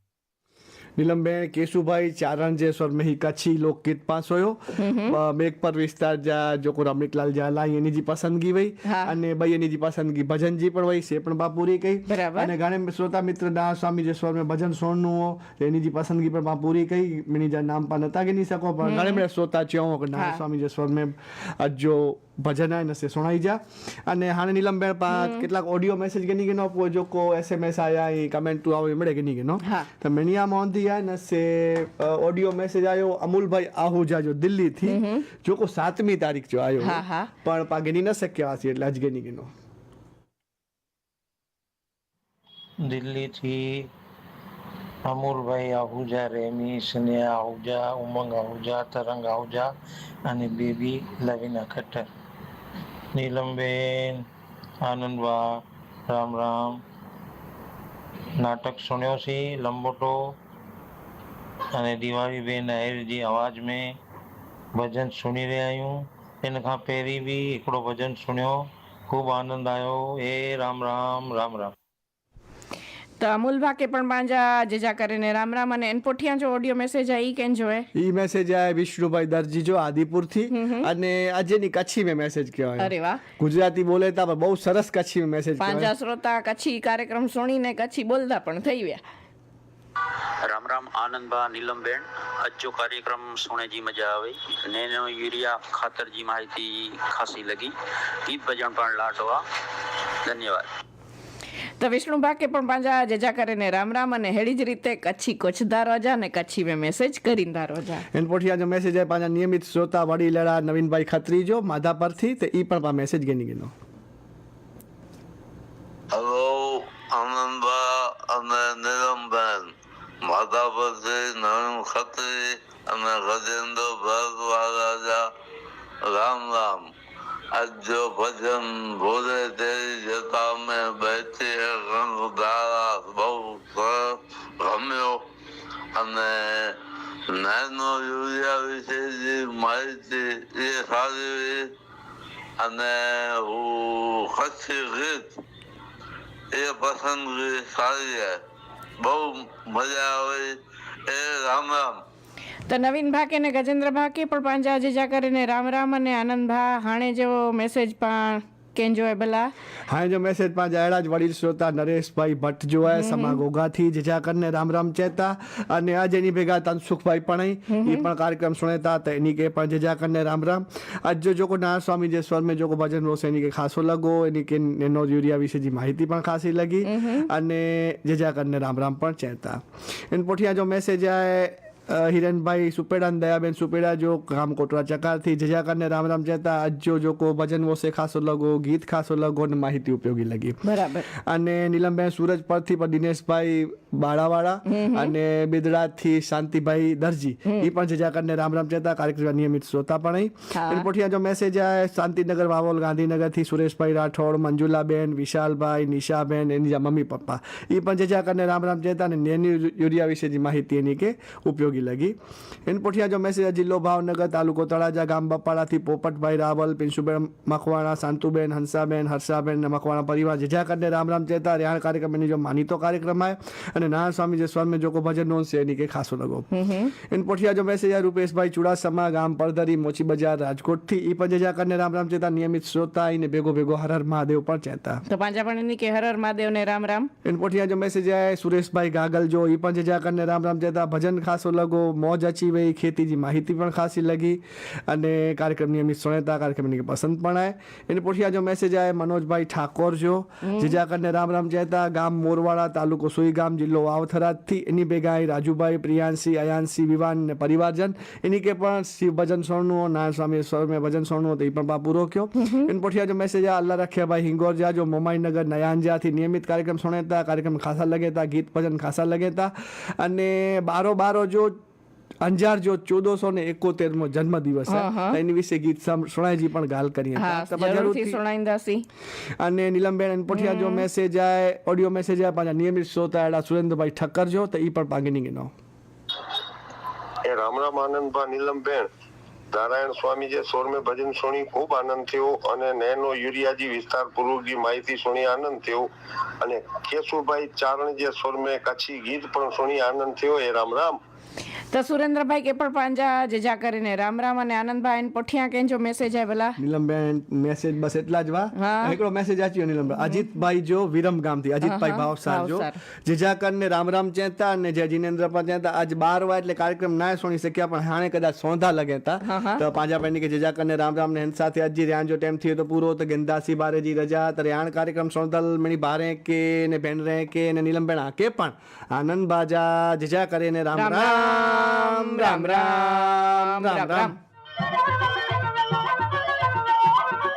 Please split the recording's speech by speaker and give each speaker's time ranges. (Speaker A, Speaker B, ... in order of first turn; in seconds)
Speaker A: 1.0-39.5, 77.9-85.9, 108.1-113.7, 159.9-212.2, 212.7-226.5, 227.0-235.0, 237.2-271.6, 272.2-278.2, 279.4-285.5, 306.6-334.1
Speaker B: 4.7-5.2, 8.8-9.1, 12.1-12.5, 18.8-19.2, 25.1-25.5, 29.6-29.9, 34.9-35.3, 36.8-37.3, 73.2-77.9, 80.5-80.9, 82.8-83.2, 85.6-89.0, 101.8-108.0, 152.7-159.5, 162.9-163.4, 167.7-168.1, 176.8-177.3, 190.6-191.1, 194.7-195.1, 200.5-200.9, 226.5-226.9, 235.1-237.1, 250.4-250.8, 262.4-262.7, 274.7-275.2, 277.2-278.9, 280.3-280.8, 301.7-306.6, 308.6-309.0, 311.6-312.8, 319.2-319.6, 330.7-334.1
Speaker C: 42.8-43.6, 45.0-49.7, 50.3-52.1, 53.1-54.2, 54.8-55.5, 56.1-56.8, 58.4-60.2, 61.8-63.9, 64.8-71.7
Speaker D: 90.5-97.7, 98.3-99.4, 100.2-100.7
Speaker E: 116.1-119.7, 120.2-125.2, 126.0-126.9, 127.5-135.2, 135.9-136.8, 137.3-141.7, 142.6-145.3, 146.5-148.4, 149.0-150.5, 151.1-152.0
Speaker F: 287.2-288.9, 289.5-295.9, 296.4-300.9